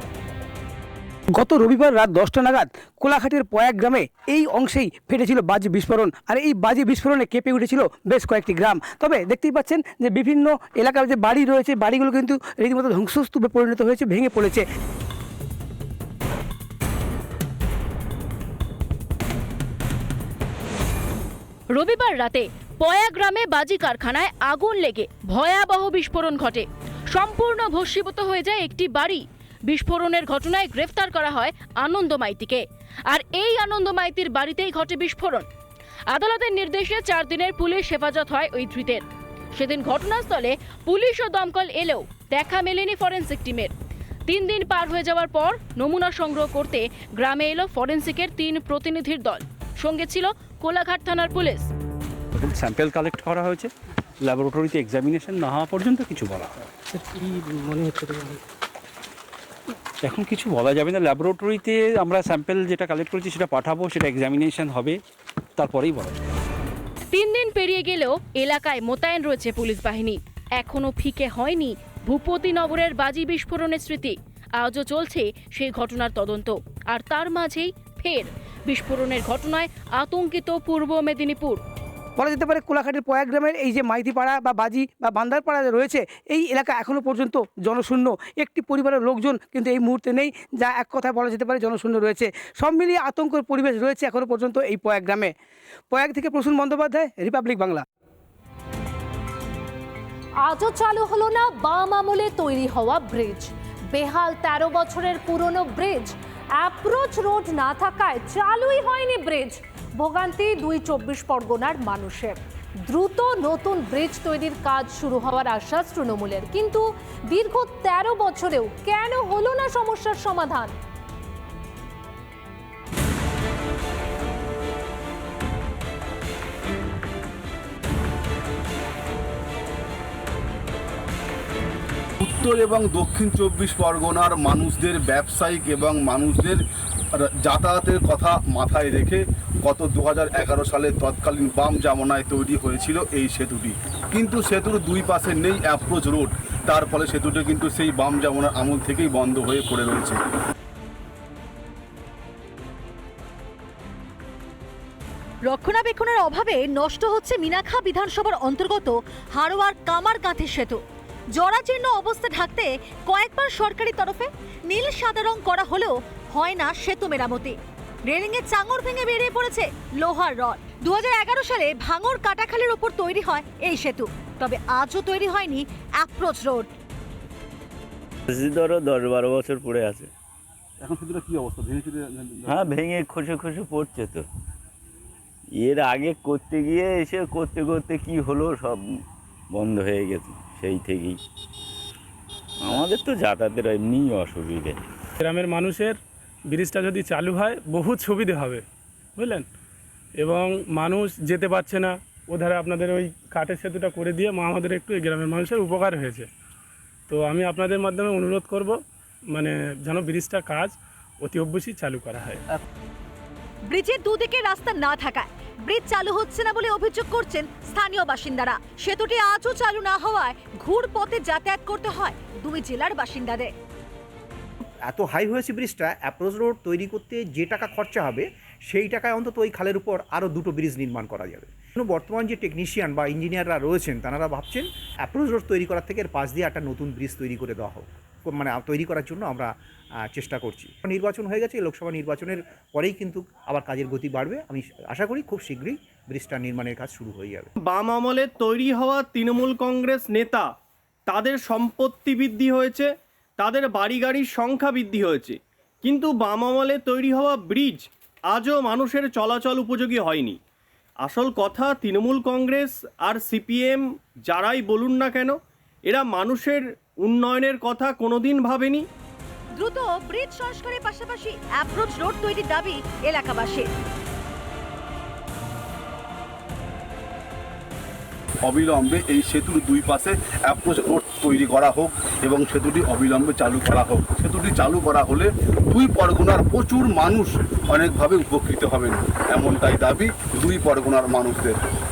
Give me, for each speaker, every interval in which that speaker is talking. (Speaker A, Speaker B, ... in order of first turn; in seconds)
Speaker A: 1.3-14.6, 82.2-95.3, 95.9-97.8
Speaker B: 21.7-35.5, 36.1-39.0, 39.5-43.7, 44.3-51.7, 67.1-81.6
Speaker C: 52.4-53.7, 54.2-56.5, 60.0-65.0, 65.6-66.1
Speaker D: 100.4-120.7
Speaker E: 132.2-136.6, 137.2-150.2, 278.4-291.6
Speaker F: 155.5-160.8, 161.3-167.6, 168.1-176.7, 213.7-223.5, 269.6-273.6
Speaker G: 178.4-180.0, 182.4-184.1, 185.6-188.7, 189.5-191.1, 192.7-194.8
Speaker H: 195.2-196.0, 196.5-198.6, 199.2-199.4, 200.2-206.3, 207.1-208.8, 209.3-212.4
Speaker I: 224.8-239.5, 240.1-247.5
Speaker J: 247.6-250.5, 251.1-260.4, 261.0-265.4, 265.9-268.8